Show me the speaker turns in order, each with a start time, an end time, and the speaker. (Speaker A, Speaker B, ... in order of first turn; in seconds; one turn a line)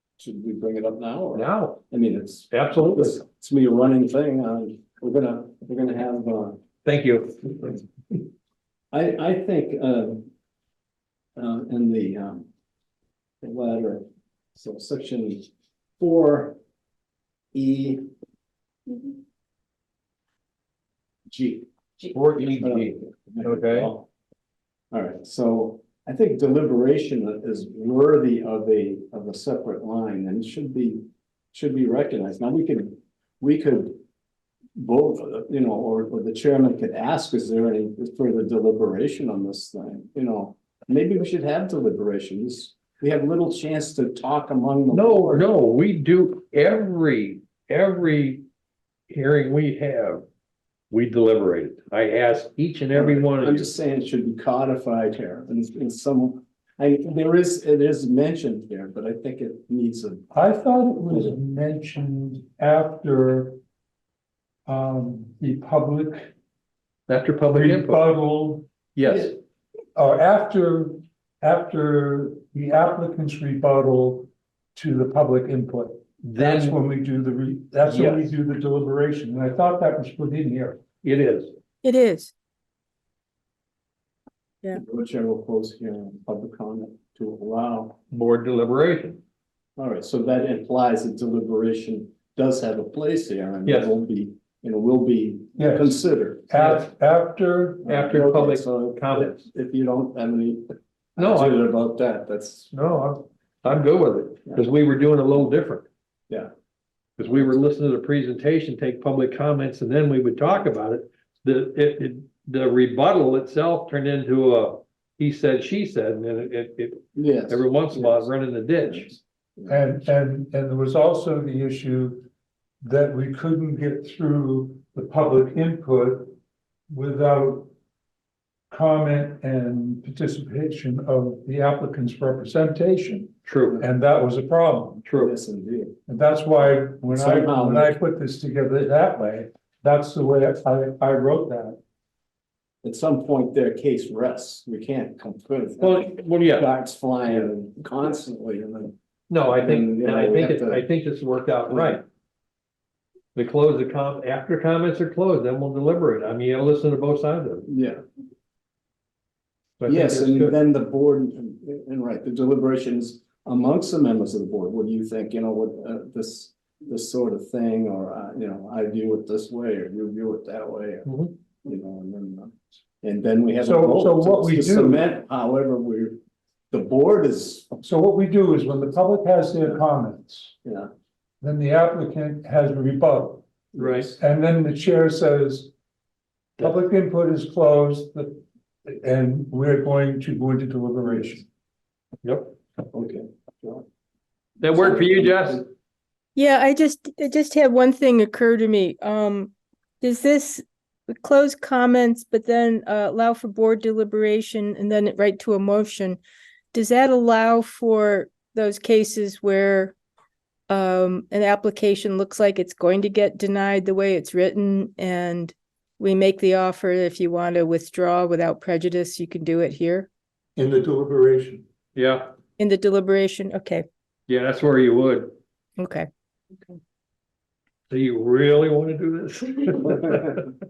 Speaker A: 0.2-6.6
Speaker B: 1.3-1.8
Speaker B: 2.5-3.2
Speaker B: 6.8-7.8
Speaker A: 8.9-10.3
Speaker A: 11.4-12.5
Speaker A: 13.4-16.6
Speaker A: 17.5-18.1
Speaker A: 21.3-21.7
Speaker B: 22.1-23.9
Speaker A: 22.6-24.1
Speaker A: 24.9-34.0
Speaker A: 34.8-45.5
Speaker B: 44.9-48.5
Speaker B: 49.1-50.2
Speaker B: 50.9-53.7
Speaker A: 53.0-60.3
Speaker C: 60.3-63.6
Speaker C: 64.7-66.3
Speaker B: 67.1-68.0
Speaker C: 67.5-68.7
Speaker B: 68.9-69.3
Speaker C: 70.0-80.8
Speaker B: 76.2-76.8
Speaker B: 77.9-78.3
Speaker B: 81.0-81.5
Speaker D: 81.8-82.3
Speaker A: 84.8-88.0
Speaker B: 88.1-89.2
Speaker A: 89.8-96.5
Speaker B: 93.7-93.9
Speaker C: 95.6-97.9
Speaker B: 96.5-96.9
Speaker B: 97.8-99.5
Speaker A: 97.8-102.7
Speaker B: 101.2-101.6
Speaker B: 102.7-105.9
Speaker B: 107.2-119.2
Speaker A: 117.2-119.8
Speaker C: 119.7-122.3
Speaker C: 122.8-126.4
Speaker C: 126.9-127.7
Speaker C: 128.7-135.0
Speaker B: 133.5-133.8
Speaker B: 135.1-135.3
Speaker A: 135.1-136.0
Speaker C: 136.1-141.8
Speaker A: 137.1-137.9
Speaker A: 142.8-148.9
Speaker B: 145.8-146.7
Speaker B: 149.3-152.0
Speaker A: 149.5-150.9
Speaker A: 151.7-152.0
Speaker B: 153.3-157.7
Speaker A: 157.7-158.0
Speaker B: 159.8-160.5
Speaker A: 159.9-176.2
Speaker B: 171.1-171.3
Speaker C: 173.6-175.0
Speaker A: 176.7-177.7
Speaker C: 177.8-180.6
Speaker A: 180.6-180.9
Speaker C: 181.4-183.4
Speaker A: 183.7-184.2
Speaker B: 183.8-184.1
Speaker C: 184.2-185.7
Speaker C: 186.6-191.5
Speaker B: 192.2-192.6
Speaker A: 192.9-193.8
Speaker B: 194.6-195.7
Speaker A: 194.7-195.6
Speaker D: 196.4-206.2
Speaker D: 206.7-210.0
Speaker D: 210.7-220.1
Speaker C: 220.6-221.7
Speaker B: 221.9-222.3
Speaker D: 222.6-223.8
Speaker B: 224.3-225.4
Speaker D: 225.8-226.1
Speaker B: 227.9-230.4